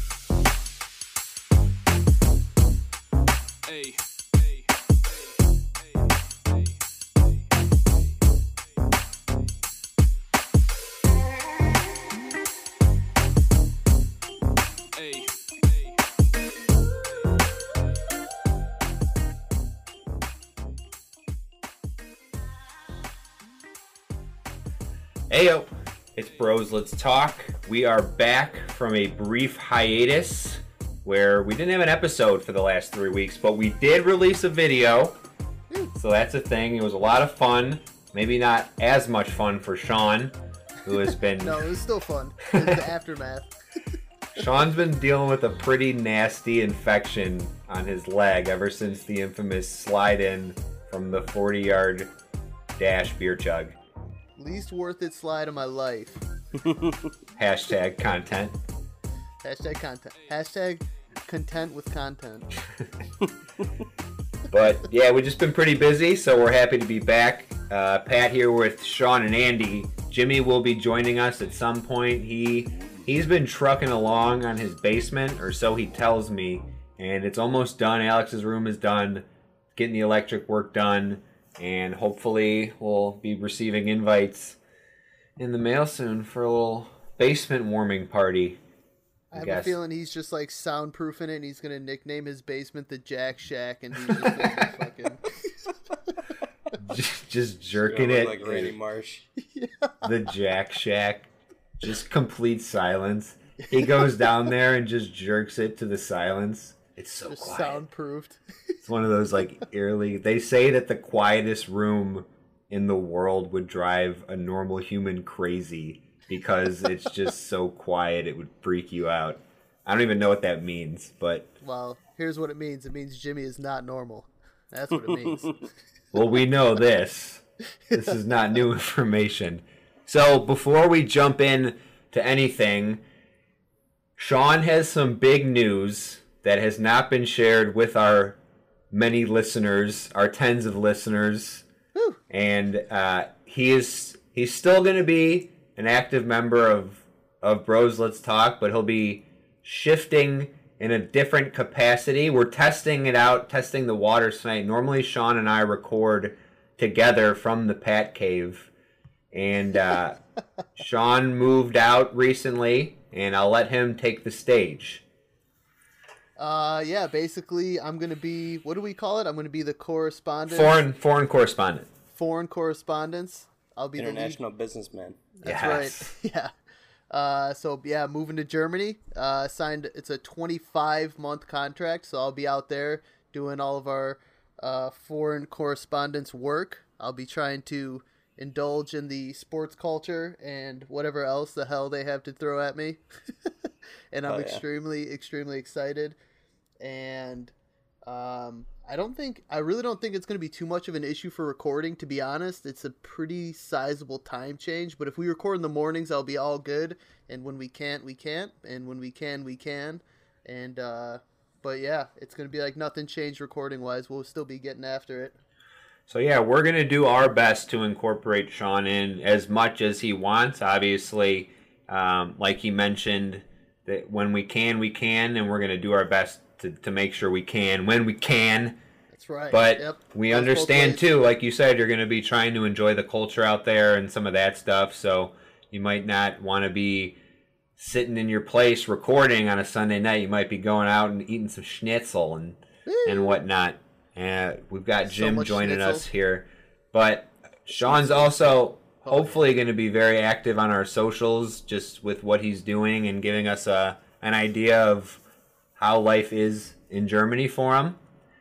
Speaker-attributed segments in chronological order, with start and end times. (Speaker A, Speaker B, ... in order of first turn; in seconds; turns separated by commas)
Speaker A: 25.3-35.2, Speaker A: 35.9-41.7, Speaker B: 41.4-43.5, Speaker A: 44.3-52.1, Speaker A: 52.8-53.7, Speaker B: 54.4-56.2, Speaker C: 56.6-57.1, Speaker A: 57.4-58.5, Speaker B: 59.4-62.5, Speaker A: 64.5-84.6, Speaker A: 85.4-88.6, Speaker A: 89.3-89.8, Speaker B: 89.3-95.2, Speaker A: 96.8-98.7, Speaker C: 97.8-99.2, Speaker B: 99.4-100.0, Speaker A: 100.0-101.3, Speaker A: 101.8-107.8, Speaker B: 107.3-108.4, Speaker A: 108.8-121.5, Speaker B: 121.6-125.6, Speaker A: 126.1-133.0, Speaker A: 134.2-138.4, Speaker A: 138.9-141.7, Speaker A: 142.3-158.7, Speaker A: 159.3-160.2, Speaker A: 160.8-165.0, Speaker B: 166.4-170.8, Speaker A: 170.5-171.9, Speaker B: 172.1-174.4, Speaker C: 174.0-175.2, Speaker B: 175.4-176.5, Speaker A: 175.4-176.1, Speaker B: 177.1-193.0, Speaker B: 194.1-196.2, Speaker C: 194.3-194.6, Speaker B: 196.8-197.5, Speaker B: 198.1-215.4, Speaker A: 216.1-228.8, Speaker B: 229.1-231.0, Speaker A: 229.5-237.2, Speaker A: 237.8-255.2, Speaker B: 242.9-243.4, Speaker B: 245.0-246.1, Speaker B: 247.8-249.4, Speaker A: 255.8-258.0